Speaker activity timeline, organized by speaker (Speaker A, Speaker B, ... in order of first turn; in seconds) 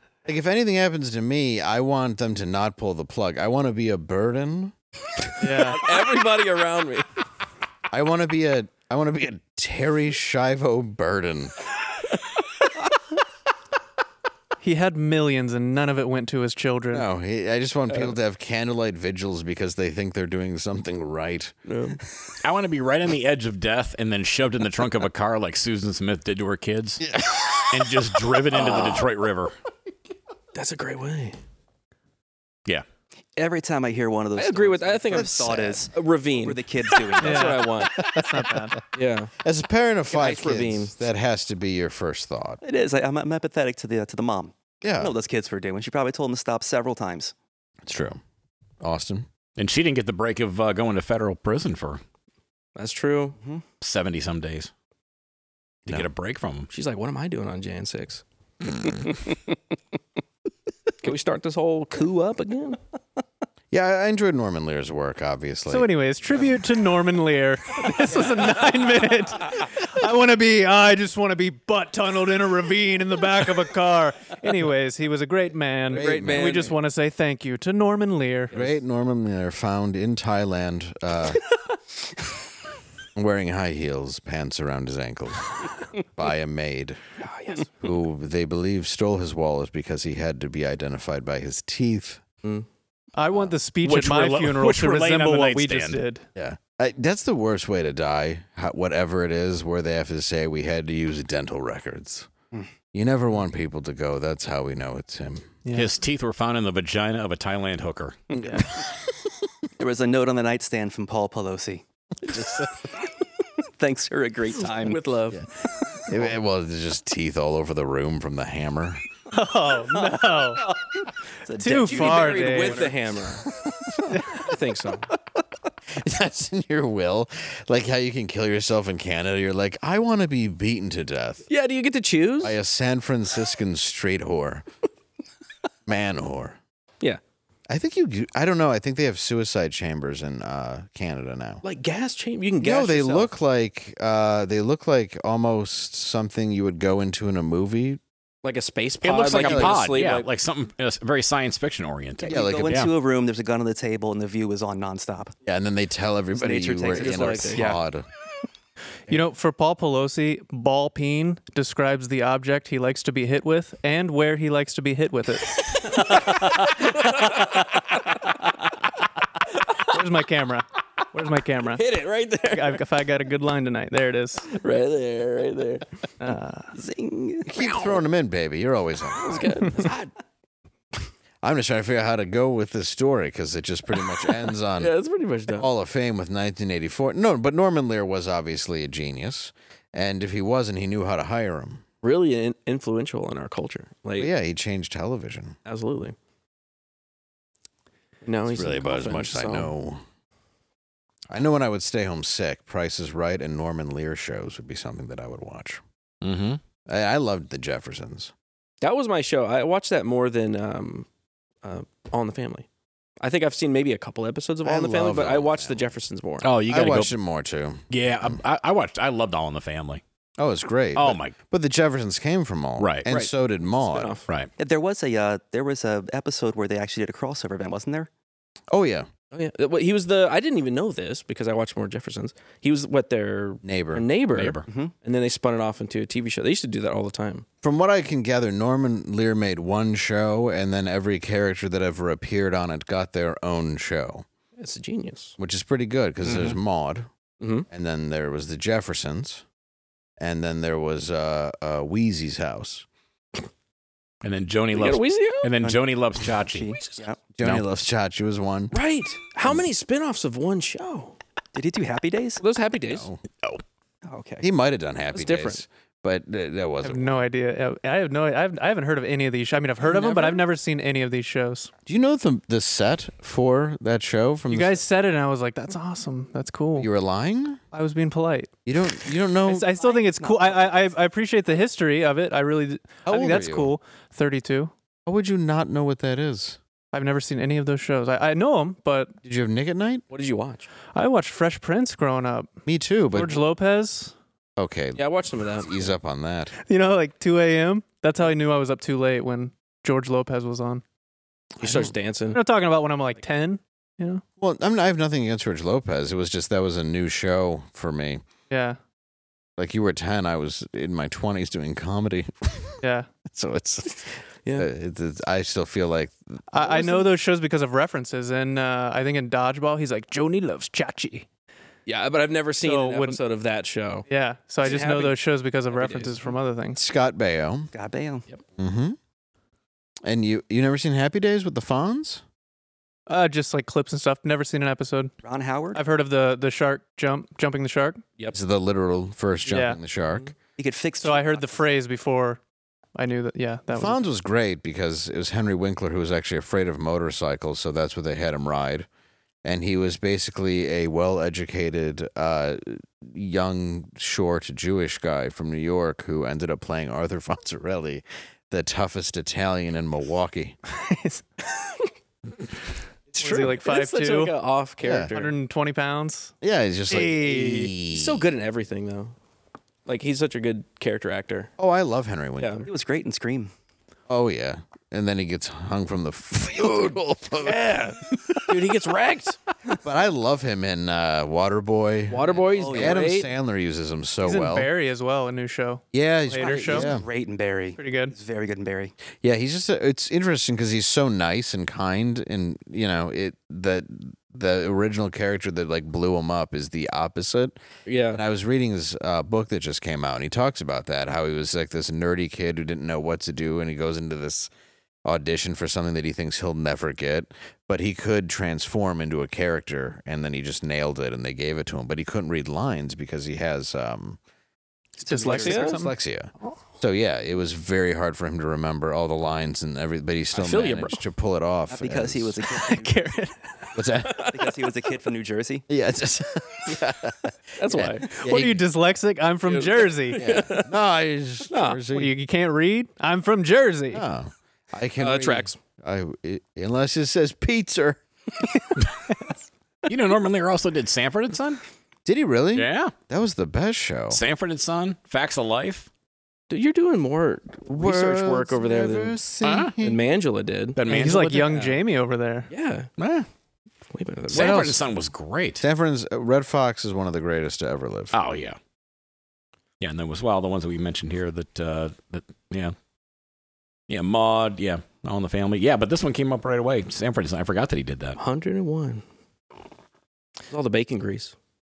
Speaker A: 0.2-4.7, 7.9-11.5, 16.9-21.5, 27.0-28.9, 38.0-38.4, 39.4-42.6, 44.8-45.1, 47.9-48.2, 48.8-49.3, 63.7-65.9, 75.9-76.6, 78.5-81.4, 83.2-87.0, 87.8-92.2, 96.3-102.3, 102.9-105.6, 108.4-108.8, 112.3-112.9, 116.0-119.0, 125.9-131.4, 132.4-134.7, 135.8-136.6, 137.7-141.6, 142.6-148.0, 149.3-149.8, 152.2-152.9, 155.4-158.1, 177.4-179.7, 181.4-184.9, 185.5-191.8, 194.2-195.6, 198.5-200.0, 201.3-205.8, 206.9-208.3, 214.6-215.9, 216.7-218.4, 220.4-224.2, 228.7-229.1, 233.6-234.1, 237.6-244.2, 245.4-247.1, 247.7-249.4, 250.2-252.8, 257.4-258.8, 262.9-263.2, 264.4-267.2, 271.9-274.8, 276.8-277.6, 278.6-279.7, 283.0-283.7, 285.1-286.6, 289.2-290.0, 292.6-293.4, 294.6-296.5, 301.6-301.9, 304.4-308.2, 309.6-316.4, 326.7-327.7, 328.6-329.0, 330.0-332.2, 338.3-340.3, 343.7-348.9, 349.4-360.6, 363.1-363.6, 364.8-365.1, 366.4-368.3, 371.6-372.7, 374.1-377.8, 379.8-384.7, 385.9-387.1, 389.2-397.6, 398.1-404.5, 405.0-414.2, 415.3-422.4, 423.7-424.3, 425.7-428.6, 430.1-432.1, 433.9-438.0, 442.1-444.2, 447.6-450.0, 454.3-454.8, 455.6-458.1
Speaker B: 5.4-5.8, 14.6-17.1, 37.2-38.8, 65.7-78.5, 93.2-96.2, 119.3-120.6, 121.6-122.8, 124.1-124.4, 159.1-165.6, 169.9-171.8, 172.5-174.5, 176.2-176.7, 266.8-271.7, 274.5-276.9, 277.7-278.5, 279.4-284.7, 286.9-289.1, 290.9-292.5, 293.1-294.1, 296.7-300.8, 302.3-304.2, 308.5-308.8, 312.8-313.1, 316.5-321.2, 322.6-323.2, 324.1-326.8, 333.1-335.1, 335.7-338.0, 339.4-339.8, 341.0-342.4, 342.9-344.0, 360.7-361.2, 363.2-364.3, 365.1-366.3, 366.9-367.7, 384.2-386.9, 387.8-388.1, 415.0-415.9, 422.5-423.4, 428.1-430.2, 431.9-434.0, 450.8-452.5
Speaker C: 5.7-7.0, 21.7-22.0, 28.5-29.0, 30.5-31.4, 34.4-38.0, 38.9-39.3, 40.1-40.9, 52.8-53.4, 56.7-58.2, 61.0-62.8, 75.9-76.7, 87.2-87.7, 114.8-115.4, 121.8-123.5, 124.3-125.1, 131.5-132.6, 141.6-143.3, 148.4-150.3, 156.9-157.7, 165.8-168.1, 171.7-172.8, 174.5-175.8, 179.2-180.1, 184.8-185.7, 192.0-194.3, 195.7-196.1, 198.2-199.7, 208.8-211.1, 211.6-212.7, 213.2-216.5, 223.1-224.2, 229.3-237.4, 244.6-245.3, 247.4-247.7, 254.7-255.5, 258.7-261.2, 262.4-263.1, 265.1-265.6, 269.8-270.4, 290.1-290.7, 294.9-295.9, 301.6-302.4, 321.9-324.1, 324.6-325.2, 325.7-326.3, 363.5-365.3, 367.9-369.1, 369.9-371.5, 372.4-372.7, 377.4-379.4, 382.1-383.3, 397.9-398.2, 415.2-415.8, 424.1-424.5, 427.6-428.1, 429.5-430.7, 431.5-431.8, 435.0-435.6, 446.5-449.2, 449.8-450.8, 452.5-452.9, 453.9-454.8, 468.2-469.0, 470.5-471.3
Speaker D: 22.4-27.0, 27.7-29.5, 49.6-52.0, 53.8-54.7, 55.9-56.7, 93.8-96.0, 105.7-108.2, 149.0-152.9, 206.2-206.6, 216.4-217.1, 217.9-220.0, 220.9-221.4, 222.8-223.0, 234.3-234.6, 254.2-256.8, 420.4-420.9, 439.9-441.6, 442.5-442.9, 444.1-445.9, 449.4-449.7, 450.8-451.6, 454.3-455.6, 458.1-458.6, 459.8-462.7, 463.9-468.2
Speaker E: 33.4-37.6, 42.6-47.3, 109.8-111.8, 113.8-115.0, 120.0-123.0, 152.2-155.3, 156.3-157.8, 176.7-177.5, 224.6-228.1, 255.6-257.2, 261.5-262.4, 264.1-264.4, 279.8-280.6, 327.7-328.2, 335.2-335.8, 340.6-341.6, 372.6-373.5, 382.5-383.0, 386.4-388.9, 415.0-415.6, 421.7-423.0, 424.3-425.6